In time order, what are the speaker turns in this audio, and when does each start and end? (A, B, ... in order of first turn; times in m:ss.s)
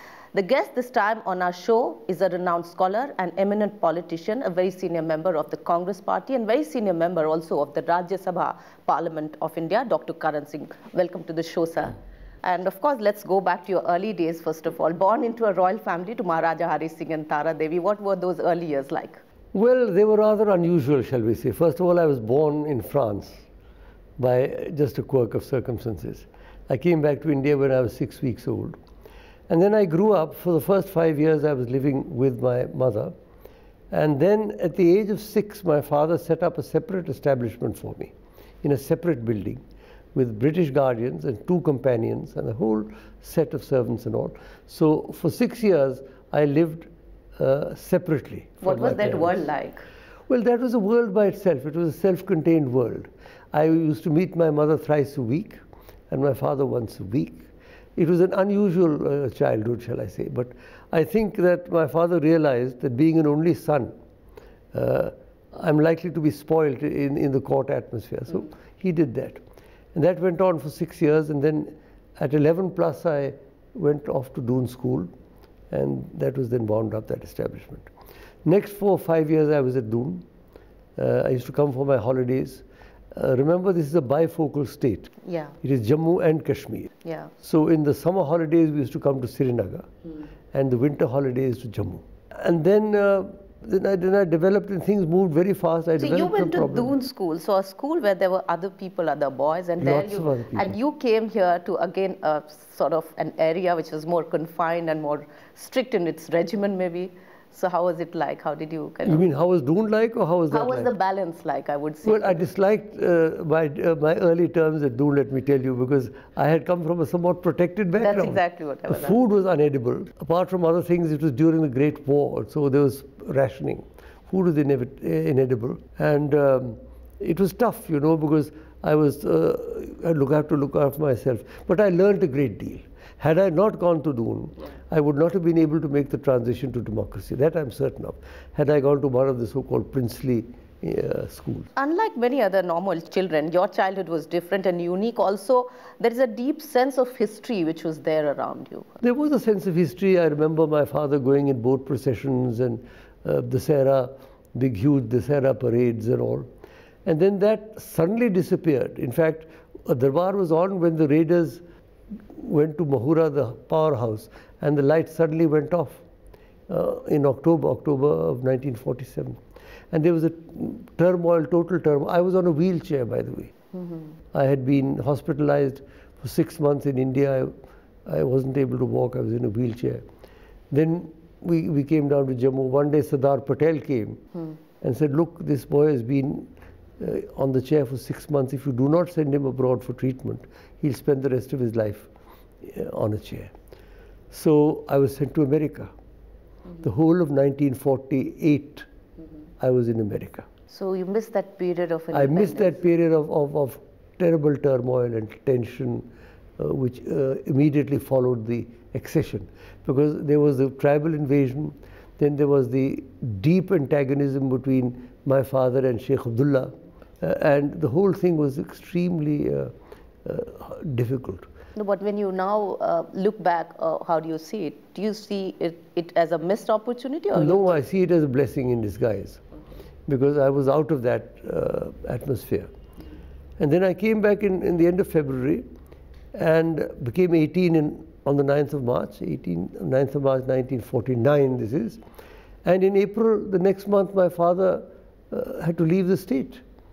0:00.3-0:19.2 A
0:19.5-0:23.4 B
0:24.2-0:28.8 B
0:29.5-0:33.1 B
0:33.9-0:39.6 B
0:40.1-0:49.4 B
0:48.6-0:49.8 A
0:50.3-1:03.9 B
1:04.7-1:09.4 B
1:09.9-1:15.1 B
1:15.7-1:17.9 B
1:18.4-1:20.2 B
1:21.0-1:29.9 B
1:25.2-1:25.6 A
1:27.0-1:27.3 A
1:30.5-1:36.9 B
1:36.0-1:49.2 A
1:39.8-1:40.7 B
1:49.0-1:50.9 B
1:50.5-1:52.4 A
1:52.0-2:21.7 B
1:58.0-1:59.2 A
2:21.8-2:28.9 A
2:29.0-2:36.5 B
2:37.0-2:41.6 B
2:42.3-2:46.0 B
2:46.7-2:49.4 B
2:49.9-2:53.5 B
2:53.7-2:54.2 A
2:54.3-2:57.5 B
2:58.0-3:00.0 B
3:00.7-3:04.2 B
3:04.8-3:12.1 B
3:12.6-3:13.5 B
3:14.3-3:15.9 B
3:16.8-3:18.8 B
3:19.6-3:20.5 B
3:20.7-3:22.8 A
3:22.1-3:41.5 B
3:41.8-3:47.8 A
3:47.3-3:49.4 B
3:50.0-3:52.7 B
3:53.6-3:55.6 B
3:56.3-4:02.0 B
4:02.6-4:06.6 B